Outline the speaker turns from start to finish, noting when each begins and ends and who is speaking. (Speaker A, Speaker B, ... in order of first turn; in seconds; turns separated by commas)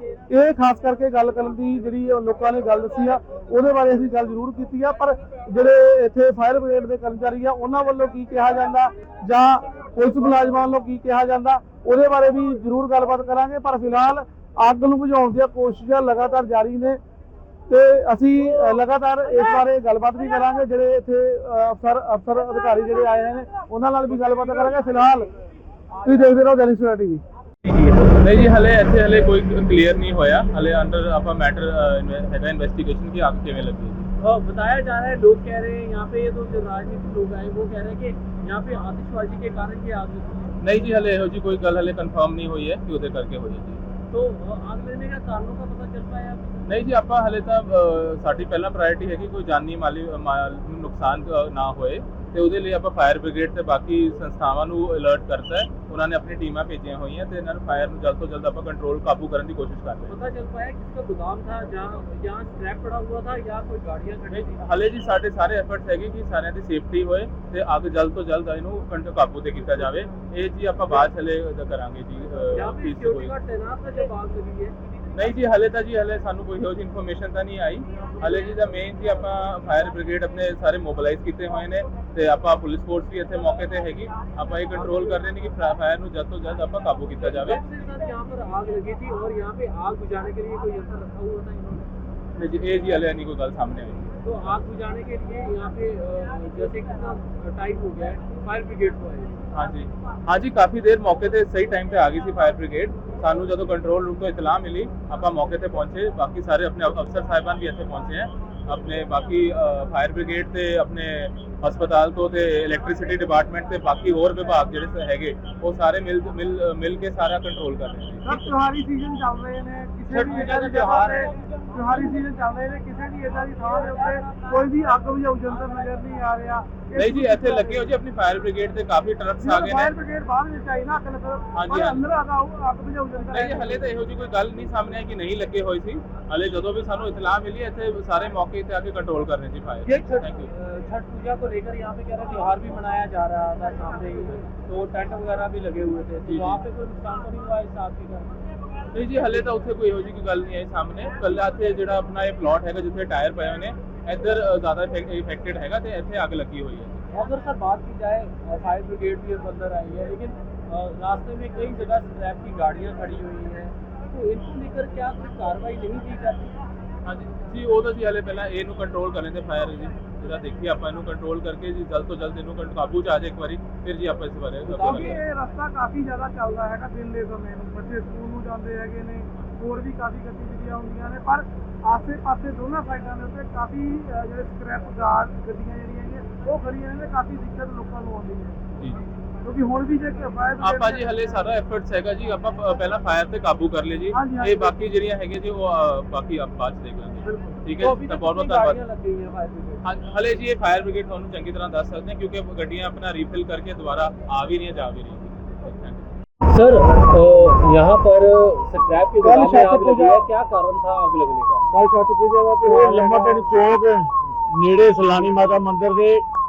Speaker A: 0.3-17.0, Speaker A: 17.7-25.3, Speaker A: 26.0-27.2, Speaker B: 27.8-34.1, Speaker C: 34.2-40.5, Speaker B: 40.6-43.8, Speaker C: 44.1-46.9, Speaker B: 46.6-60.1, Speaker C: 60.1-64.6, Speaker B: 64.3-73.3, Speaker C: 72.5-74.7, Speaker B: 75.1-87.6, Speaker C: 84.8-85.1, Speaker C: 87.3-91.9, Speaker B: 92.4-94.1, Speaker C: 94.2-99.4, Speaker B: 99.5-118.5, Speaker A: 118.2-127.8, Speaker C: 120.1-121.3, Speaker B: 127.0-129.9, Speaker A: 129.4-133.9, Speaker B: 131.5-132.0, Speaker B: 133.3-140.5, Speaker C: 139.8-148.4, Speaker B: 146.2-146.6, Speaker B: 148.9-157.1, Speaker C: 157.1-166.5, Speaker B: 167.0-175.2, Speaker C: 174.6-175.1, Speaker A: 174.8-188.6, Speaker A: 189.4-191.2, Speaker B: 190.6-198.8, Speaker A: 194.1-194.7, Speaker C: 197.2-199.8, Speaker B: 199.8-206.1, Speaker C: 206.5-211.6, Speaker A: 209.2-210.2, Speaker A: 211.7-213.4, Speaker D: 212.6-216.2